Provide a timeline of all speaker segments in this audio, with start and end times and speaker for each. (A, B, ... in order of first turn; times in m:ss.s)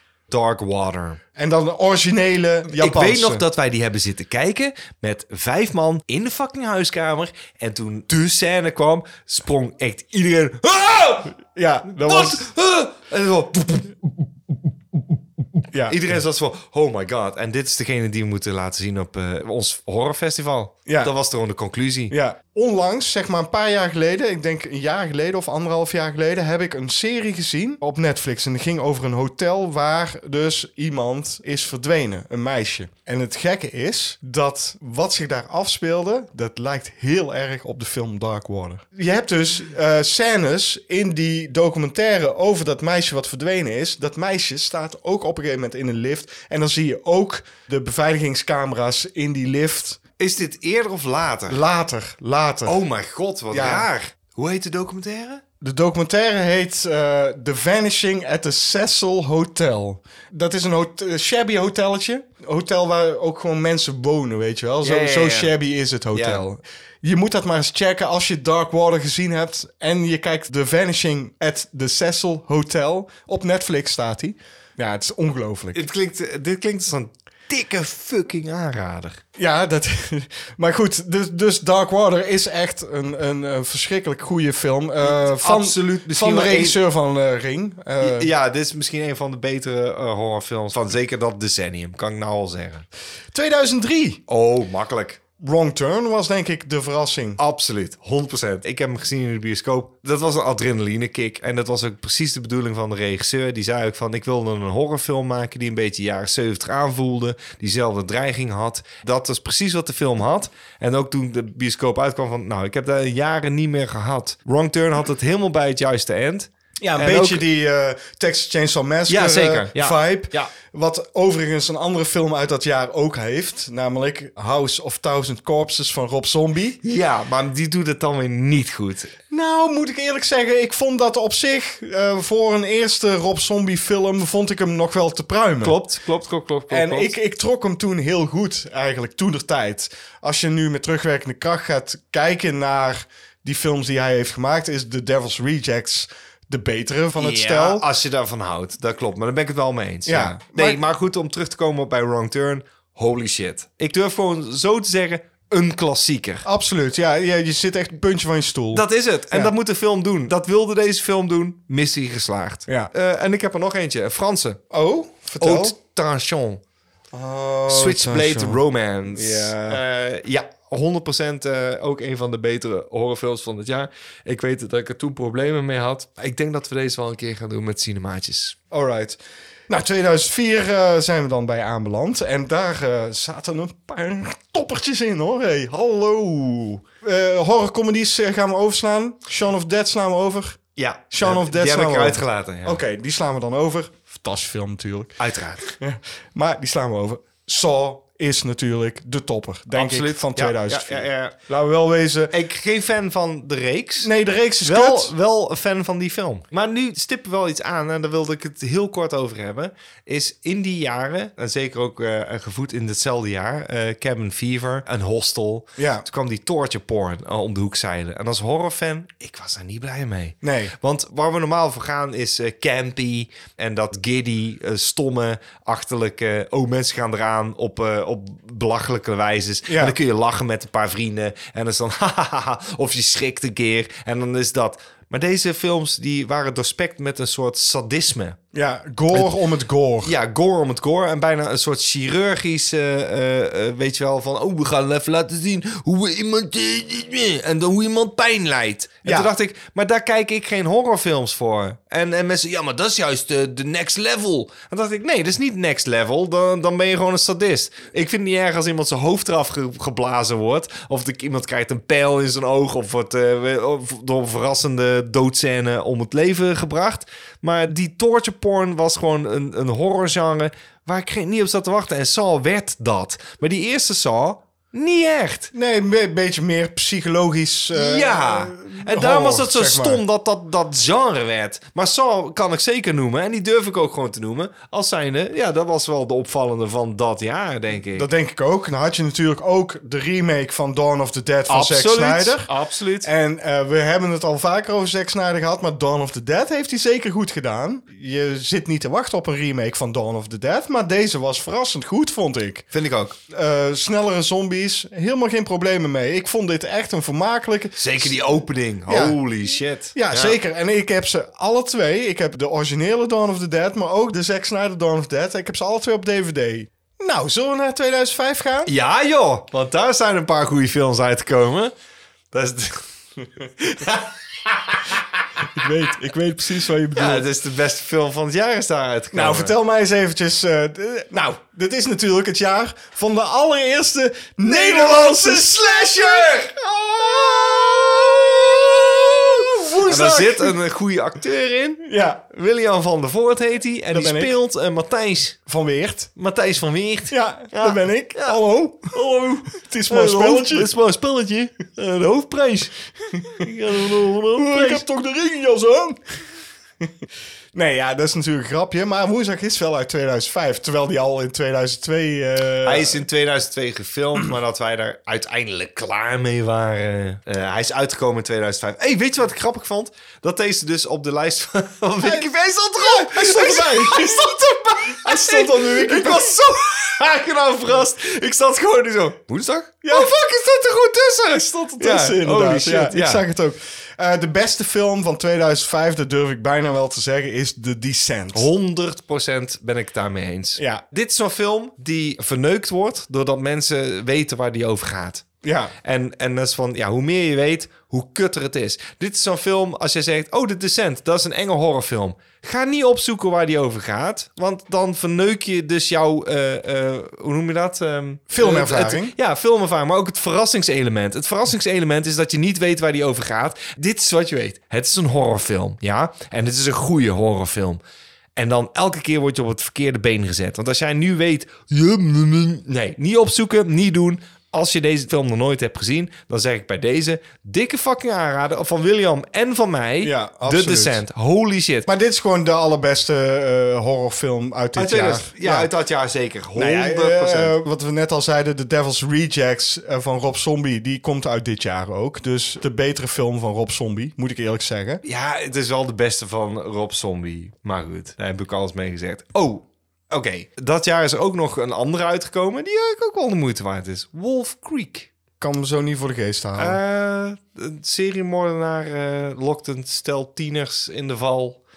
0:00.3-0:01.2 A
0:01.4-0:03.4 B
0:02.7-0:11.4 A
0:11.5-0:12.5 B
0:11.9-0:14.0 A
0:15.7-0:16.2 B
0:15.9-0:22.1 A
0:20.9-0:21.1 B
0:22.1-0:50.0 B
0:50.2-0:51.6 A
0:51.5-0:52.8 B
0:52.6-0:55.4 A
0:53.5-0:53.9 B
0:55.6-1:15.8 B
1:04.8-1:05.5 A
1:06.1-1:06.4 A
1:15.7-1:19.2 A
1:19.4-1:28.3 B
1:25.0-1:26.8 A
1:28.0-1:32.8 A
1:33.3-1:34.2 B
1:34.3-1:35.2 A
1:35.4-1:37.4 B
1:37.4-1:57.4 A
1:56.8-2:06.8 B
1:59.1-2:00.5 A
2:06.8-2:09.1 A
2:09.3-2:15.8 B
2:15.6-2:17.1 A
2:16.7-2:27.8 B
2:27.2-2:36.4 A
2:30.0-2:30.8 B
2:36.4-2:39.5 B
2:38.7-2:44.6 A
2:44.7-2:45.7 B
2:45.4-2:46.6 A
2:47.1-2:48.6 B
2:47.7-2:58.6 A
2:49.1-2:49.8 B
2:58.7-3:10.6 B
3:10.8-3:12.8 A
3:11.1-3:15.2 B
3:15.2-3:15.7 A
3:15.8-3:22.3 B
3:19.7-3:21.4 A
3:22.3-3:24.1 A
3:24.0-3:25.1 B
3:24.6-3:58.4 A
3:35.8-3:36.0 B
3:40.4-3:40.7 B
3:49.7-3:50.0 B
3:58.5-4:00.1 B
4:00.0-4:35.5 A
4:09.0-4:09.3 B
4:35.5-4:40.0 B
4:37.7-4:48.1 A
4:47.9-4:52.5 B
4:51.5-4:53.1 A
4:53.0-5:02.6 B
5:02.7-5:03.2 A
5:03.3-5:08.2 B
5:07.8-5:10.4 A
5:08.9-5:09.2 B
5:09.9-5:18.7 B
5:18.6-5:21.7 A
5:22.3-5:22.9 A
5:23.6-5:25.0 A
5:25.5-5:27.3 B
5:26.9-5:29.5 A
5:29.1-5:40.6 B
5:34.4-5:36.6 A
5:39.6-5:45.4 A
5:41.8-5:42.3 B
5:43.9-5:44.3 B
5:45.5-5:46.1 B
5:46.2-5:48.4 A
5:47.1-5:50.7 B
5:49.9-5:54.8 A
5:54.3-5:56.0 B
5:57.5-6:03.0 B
6:02.6-6:23.2 A
6:12.0-6:16.4 B
6:19.8-6:20.2 B
6:21.3-6:28.5 B
6:28.3-6:35.3 A
6:30.6-6:30.8 B
6:35.4-6:35.7 B
6:35.8-6:57.8 A
6:48.3-6:49.1 B
6:58.4-7:11.9 A
7:10.0-7:11.0 B
7:11.8-7:15.7 B
7:14.8-7:17.5 A
7:16.6-7:25.0 B
7:25.0-7:35.1 A
7:35.4-7:36.8 B
7:36.6-7:41.6 A